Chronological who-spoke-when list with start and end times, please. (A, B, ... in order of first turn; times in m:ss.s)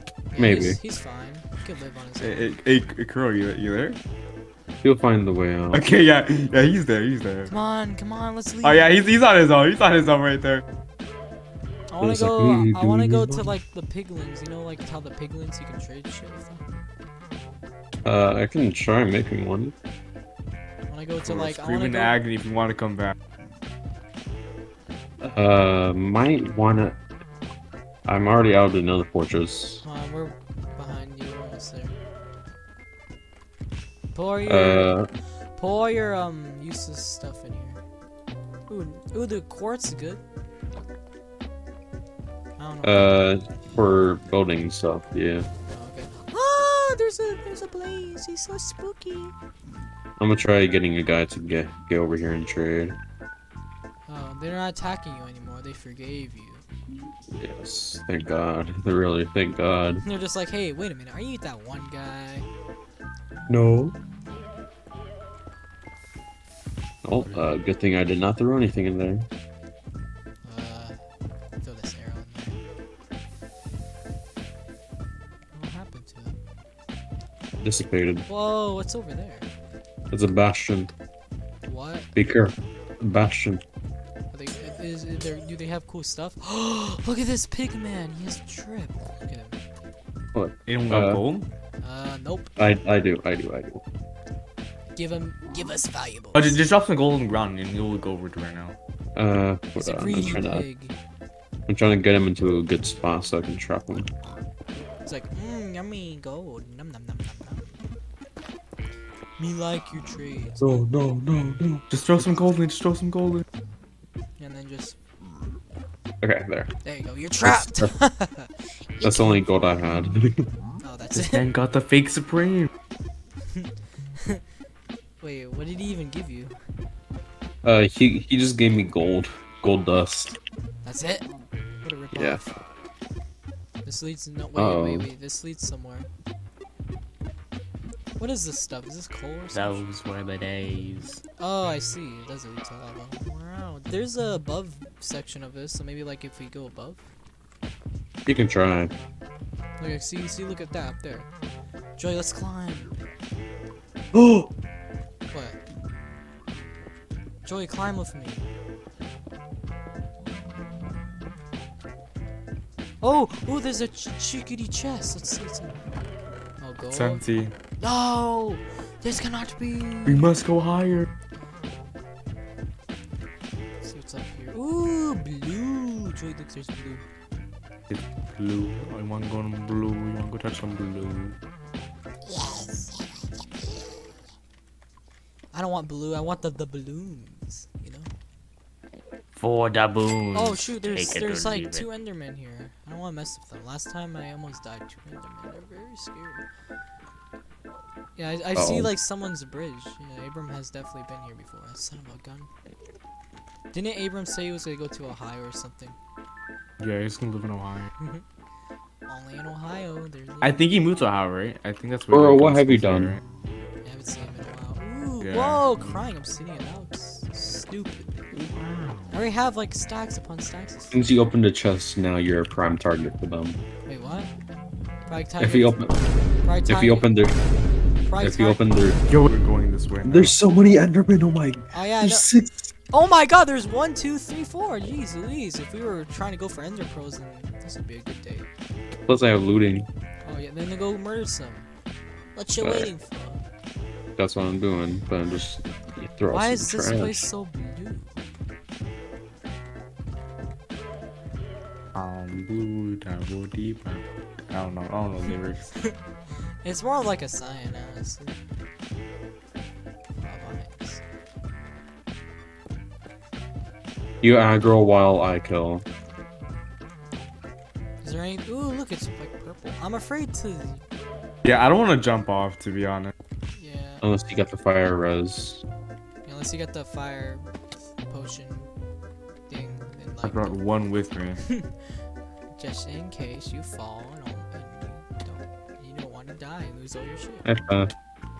0:00.3-0:02.5 A
0:00.4-0:00.8 B
0:02.2-0:04.0 C
0:04.8-0:05.8 B
0:05.7-0:07.5 C
0:07.5-0:08.9 A
0:08.6-0:10.6 C
0:11.9-0:16.6 A
0:12.0-0:13.6 B
0:18.0-0:19.7 B
0:20.9-0:22.2 A
0:21.2-0:23.2 C
0:25.2-0:27.0 B
0:28.0-0:29.8 B
0:29.8-0:32.0 A
0:34.1-0:34.9 A
0:34.5-0:35.1 B
0:35.6-0:37.8 A
0:38.7-0:40.2 A
0:42.6-0:43.1 A
0:42.8-0:45.5 B
0:45.7-0:49.3 A
0:50.2-0:53.0 B
0:54.1-0:56.6 A
0:57.4-1:00.0 B
1:00.0-1:02.5 A
1:03.5-1:04.0 B
1:07.0-1:09.3 B
1:10.4-1:11.0 A
1:11.6-1:12.6 A
1:15.5-1:16.4 A
1:17.6-1:18.2 B
1:18.3-1:19.5 A
1:20.1-1:20.9 B
1:21.6-1:22.1 A
1:22.1-1:23.6 B
1:24.3-1:29.6 A
1:30.3-1:31.2 B
1:30.6-1:31.5 C
1:31.8-1:32.5 A
1:32.6-1:33.8 B
1:35.0-1:36.6 A
1:36.3-1:38.8 C
1:39.2-1:40.6 B
1:39.8-1:41.0 A
1:41.7-1:44.1 B
1:45.0-1:47.8 A
1:49.4-1:50.8 A
1:50.6-1:51.8 B
1:51.9-1:53.4 C
1:54.4-1:55.0 A
1:56.2-1:56.7 B
1:56.8-1:59.4 A
1:57.4-1:57.9 B
1:59.0-2:00.4 B
2:00.8-2:01.5 A
2:01.1-2:02.7 C
2:05.2-2:06.5 A
2:07.6-2:10.4 B
2:10.8-2:11.3 A
2:11.8-2:12.5 A
2:12.1-2:12.4 B
2:13.8-2:16.1 A
2:14.5-2:15.1 B
2:18.2-2:19.9 A
2:19.5-2:20.8 D
2:19.8-2:20.2 C
2:20.9-2:21.2 C
2:21.4-2:27.0 A
2:28.2-2:28.9 B
2:29.8-2:31.3 A
2:32.0-2:33.0 A
2:34.1-2:34.5 B
2:35.3-2:35.6 A
2:37.4-2:38.5 A
2:43.0-2:45.8 A
2:46.6-2:47.2 A
2:46.9-2:47.5 C
2:47.8-2:50.3 A
2:50.0-2:51.1 C
2:53.8-2:57.0 A
2:57.9-3:01.4 C
3:02.2-3:03.0 A
3:05.5-3:08.1 A
3:09.3-3:11.8 D
3:10.3-3:16.4 A
3:18.2-3:22.5 A
3:18.5-3:18.9 B
3:23.7-3:26.0 A
3:26.8-3:27.9 C
3:28.0-3:28.2 A
3:29.1-3:30.7 A
3:30.4-3:33.2 C
3:32.1-3:33.2 B
3:33.8-3:38.1 A
3:35.2-3:36.0 C
3:38.3-3:39.2 C
3:39.1-3:41.0 A
3:40.9-3:43.6 B
3:43.8-3:44.3 A
3:45.1-3:45.8 A
3:45.4-3:46.1 B
3:46.4-3:47.1 A
3:46.7-3:47.4 B
3:48.0-3:49.0 A
3:48.1-3:49.0 B
3:49.0-3:50.4 C
3:50.0-3:52.7 B
3:51.7-3:52.3 A
3:52.9-3:58.5 A
3:59.1-3:59.9 B
4:00.2-4:01.7 A
4:02.3-4:03.4 A
4:02.6-4:02.9 B
4:04.2-4:07.3 B
4:06.3-4:08.2 A
4:11.9-4:15.7 C
4:16.6-4:18.4 A
4:20.2-4:21.0 A
4:24.2-4:25.8 B
4:28.0-4:30.8 A
4:31.4-4:33.1 C
4:33.6-4:34.0 A
4:34.0-4:35.6 B
4:36.2-4:37.5 A
4:38.1-4:38.7 A
4:39.5-4:40.6 A
4:40.2-4:41.4 C
4:42.5-4:47.4 A
4:47.4-4:47.9 B